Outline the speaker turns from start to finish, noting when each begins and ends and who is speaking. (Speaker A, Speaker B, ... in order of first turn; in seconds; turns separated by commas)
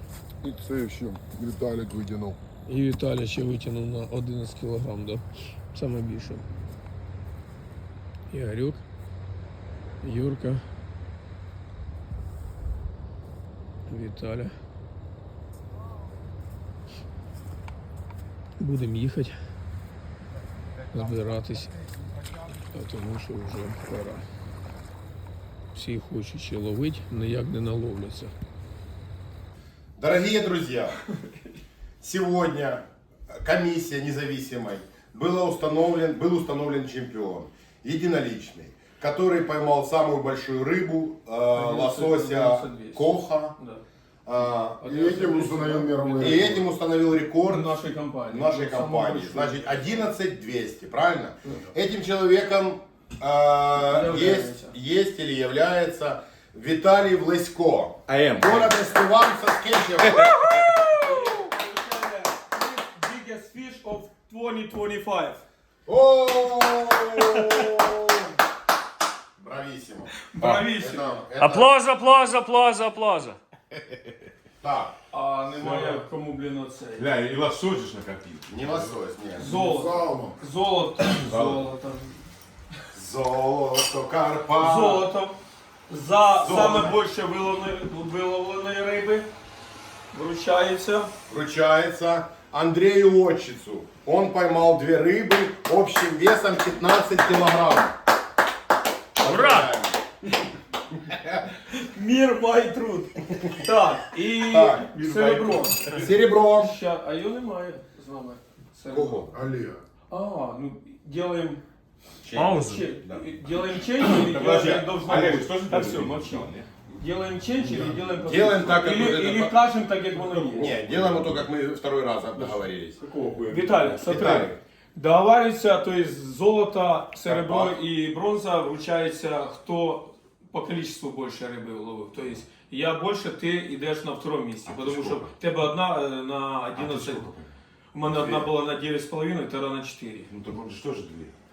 Speaker A: 0.4-2.4, Speaker B: 2.7-6.4, Speaker B: 8.3-8.8, Speaker B: 10.0-10.6, Speaker B: 13.9-14.6, Speaker B: 18.6-19.4, Speaker B: 20.9-21.7, Speaker B: 22.6-24.2, Speaker B: 25.8-28.3, Speaker C: 30.0-30.9, Speaker C: 32.0-43.5, Speaker B: 41.5-43.8, Speaker C: 44.2-44.9, Speaker B: 44.8-46.7, Speaker A: 44.9-46.6, Speaker C: 46.2-47.7, Speaker B: 47.5-50.0, Speaker C: 48.3-60.3, Speaker B: 51.5-51.7, Speaker B: 53.8-54.8, Speaker D: 58.1-58.8, Speaker D: 60.1-60.7, Speaker B: 61.0-65.4, Speaker C: 65.9-68.3, Speaker C: 69.4-70.1, Speaker B: 70.3-71.1, Speaker D: 70.4-70.7, Speaker C: 70.8-71.7, Speaker E: 71.4-73.4, Speaker C: 74.6-75.0, Speaker B: 75.1-77.2, Speaker D: 75.5-76.0, Speaker D: 77.0-78.6, Speaker C: 78.5-79.6, Speaker B: 79.4-82.2, Speaker A: 79.4-80.3, Speaker D: 81.3-81.7, Speaker C: 82.9-85.1, Speaker B: 84.6-85.3, Speaker B: 85.9-89.3, Speaker C: 86.4-87.0, Speaker B: 90.1-91.1, Speaker C: 91.3-98.0, Speaker C: 99.2-100.0, Speaker E: 99.2-99.7, Speaker B: 101.9-109.3, Speaker C: 104.2-104.9, Speaker D: 105.0-106.0, Speaker C: 105.9-106.8, Speaker C: 108.9-109.4, Speaker A: 109.3-109.8, Speaker B: 110.1-111.6, Speaker C: 112.3-113.2, Speaker D: 112.3-112.7, Speaker B: 112.4-120.8, Speaker D: 114.0-116.7, Speaker D: 117.6-119.5, Speaker C: 118.2-119.5, Speaker C: 120.3-123.0, Speaker D: 120.8-121.5, Speaker D: 122.4-124.6, Speaker B: 123.5-137.3, Speaker C: 124.0-124.5, Speaker C: 127.3-127.8, Speaker C: 134.7-135.3, Speaker C: 136.8-137.4, Speaker B: 137.9-140.3, Speaker D: 138.1-138.4, Speaker D: 140.3-141.3